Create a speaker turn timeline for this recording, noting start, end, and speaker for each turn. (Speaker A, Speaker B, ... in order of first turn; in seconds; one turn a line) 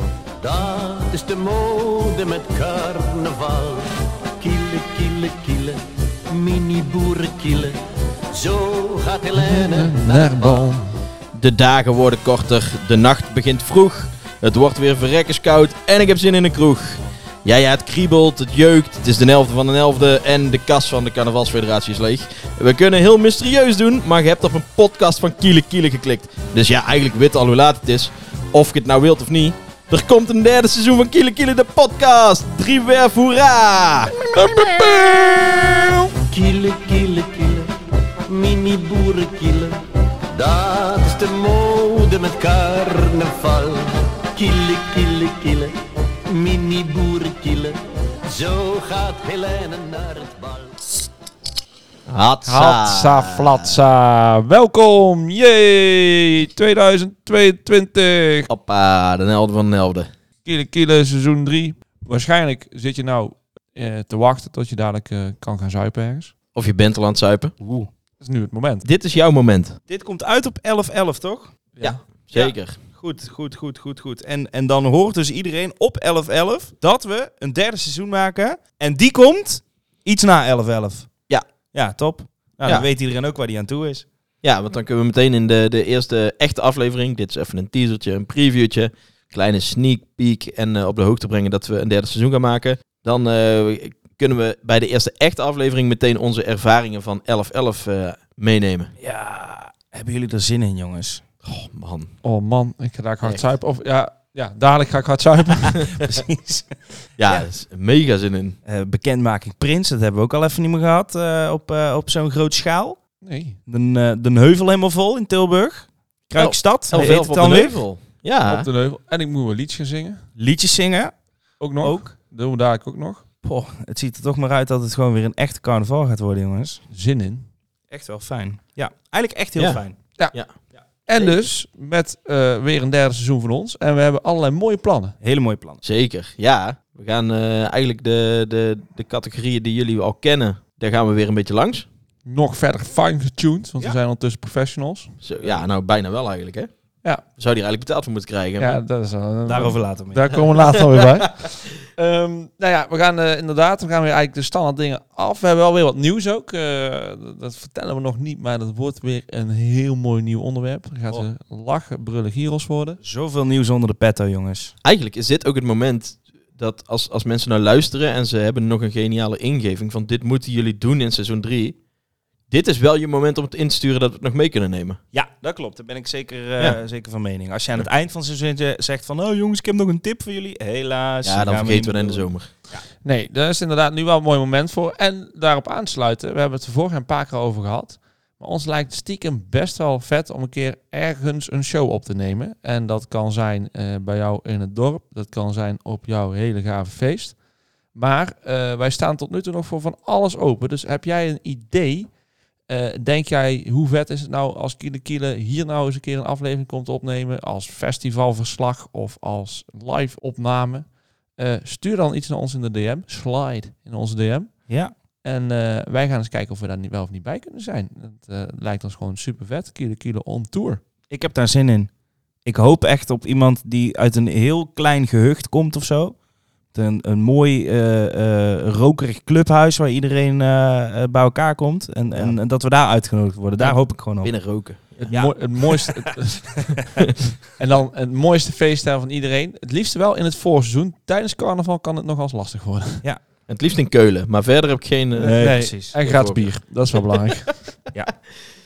Speaker A: 0.4-3.9
Speaker A: 4.4-7.7
Speaker A: 8.3-10.5
Speaker B: 9.4-11.0
Speaker C: 11.3-34.3
Speaker B: 34.4-35.5
Speaker A: 36.3-37.7
Speaker A: 38.3-39.8
Speaker A: 40.3-45.7
Speaker A: 46.3-47.8
Speaker A: 48.3-50.7
Speaker C: 52.1-53.8
Speaker B: 52.4-58.5
Speaker C: 58.5-60.1
Speaker B: 60.4-66.3
Speaker C: 66.5-67.5
Speaker D: 67.6-67.9
Speaker B: 68.2-68.9
Speaker C: 68.8-69.8
Speaker D: 69.9-71.5
Speaker B: 71.8-72.0
Speaker C: 71.8-72.8
Speaker D: 72.3-81.1
Speaker D: 81.7-84.1
Speaker C: 84.4-98.9
Speaker D: 99.0-101.2
Speaker C: 101.4-102.1
Speaker B: 102.2-105.7
Speaker D: 105.7-106.7
Speaker C: 107.2-108.6
Speaker D: 108.7-113.0
Speaker B: 113.2-113.6
Speaker D: 113.7-117.9
Speaker C: 116.4-118.7
Speaker B: 118.4-120.2
Speaker D: 120.4-122.1
Speaker B: 121.6-123.2
Speaker D: 123.4-126.8
Speaker B: 126.9-127.5
Speaker D: 127.9-130.0
Speaker C: 129.6-130.6
Speaker D: 130.7-131.5
Speaker B: 130.9-135.2
Speaker D: 135.2-135.8
Speaker C: 135.8-141.9
Speaker B: 142.2-145.2
Speaker C: 145.2-146.7
Speaker C: 147.3-148.8
Speaker B: 148.6-163.0
Speaker D: 149.4-150.4
Speaker D: 163.0-164.7
Speaker C: 164.8-171.8
Speaker C: 172.5-175.0
Speaker D: 175.1-182.8
Speaker C: 181.2-182.5
Speaker B: 183.0-197.4
Speaker B: 197.9-220.8
Speaker D: 214.7-214.9
Speaker D: 221.1-221.9
Speaker D: 222.4-226.2
Speaker D: 226.7-235.9
Speaker C: 234.2-235.1
Speaker B: 235.0-236.7
Speaker B: 237.6-243.1
Speaker C: 243.5-245.4
Speaker B: 245.2-247.9
Speaker D: 245.2-245.9
Speaker C: 246.0-246.6